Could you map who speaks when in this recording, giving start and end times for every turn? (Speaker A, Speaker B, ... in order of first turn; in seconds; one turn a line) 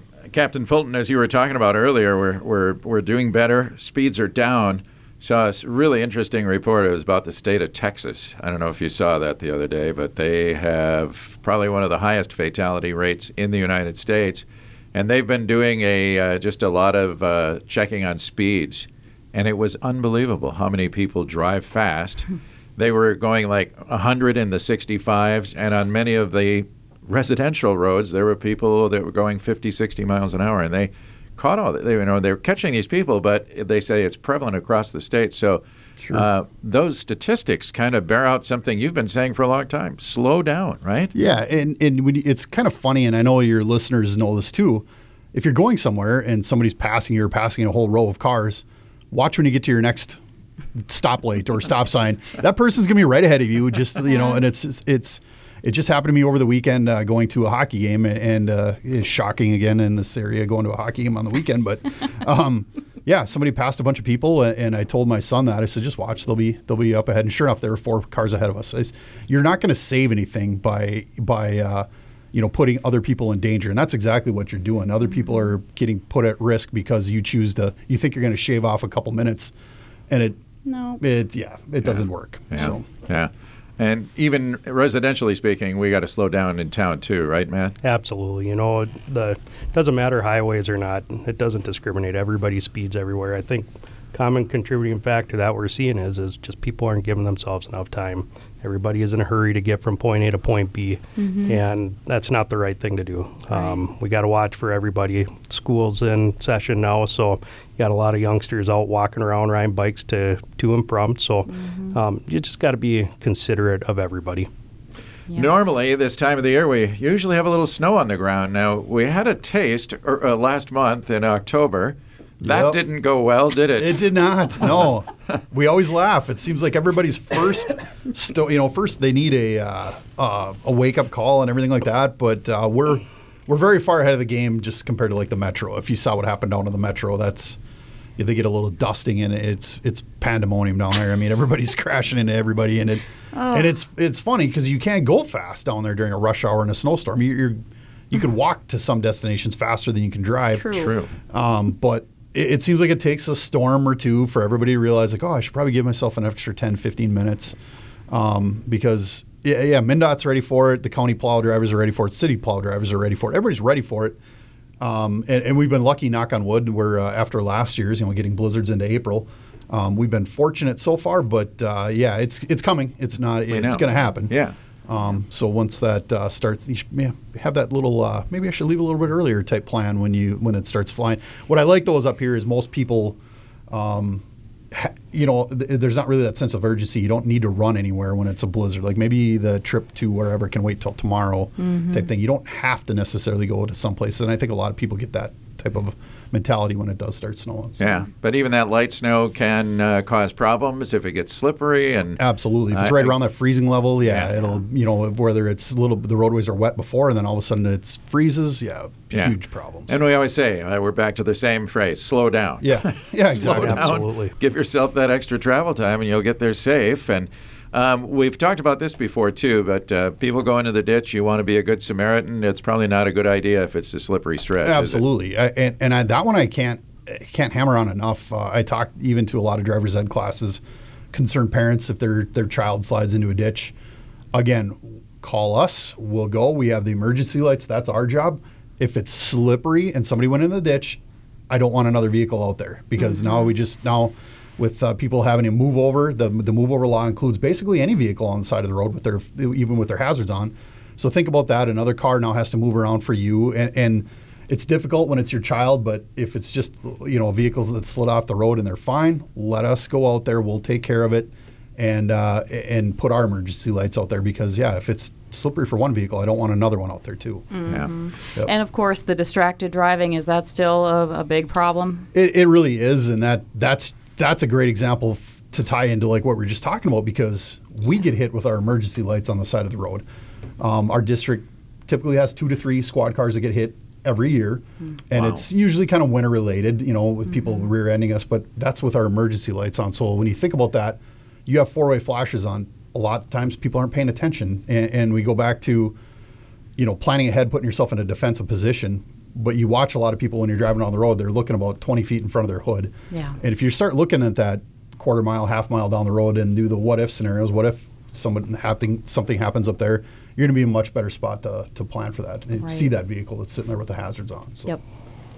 Speaker A: 0.3-41.1
Speaker B: 36.0-36.2
Speaker B: 41.1-50.2
Speaker B: 50.8-79.5
Speaker B: 80.1-80.4
Speaker C: 80.7-81.0
Speaker B: 81.0-82.8
Speaker A: 82.5-87.8
Speaker D: 87.8-114.5
Speaker C: 101.2-101.6
Speaker C: 103.5-103.8
Speaker C: 111.5-112.0
Speaker A: 115.3-124.1
Speaker B: 122.4-122.8
Speaker B: 123.8-137.6
Speaker B: 138.2-147.6
Speaker C: 143.3-143.7
Speaker B: 148.1-150.7
Speaker C: 150.5-150.9
Speaker A: 150.7-151.1
Speaker B: 151.3-157.6
Speaker B: 158.1-164.2
Speaker B: 164.8-174.3
Speaker A: 173.5-174.5
Speaker B: 174.9-183.2
Speaker B: 183.7-197.8
Speaker C: 191.6-192.1
Speaker A: 197.8-203.2
Speaker B: 202.2-209.9
Speaker A: 204.0-204.3
Speaker A: 209.9-225.0
Speaker B: 212.6-214.0
Speaker D: 213.3-214.3
Speaker B: 224.6-230.6
Speaker B: 231.1-233.7
Speaker B: 234.3-267.5
Speaker C: 243.0-243.4
Speaker C: 267.5-272.1
Speaker B: 272.1-280.0
Speaker B: 280.6-295.9
Speaker A: 285.1-285.4
Speaker B: 296.8-314.8
Speaker C: 303.1-303.4
Speaker C: 312.6-312.9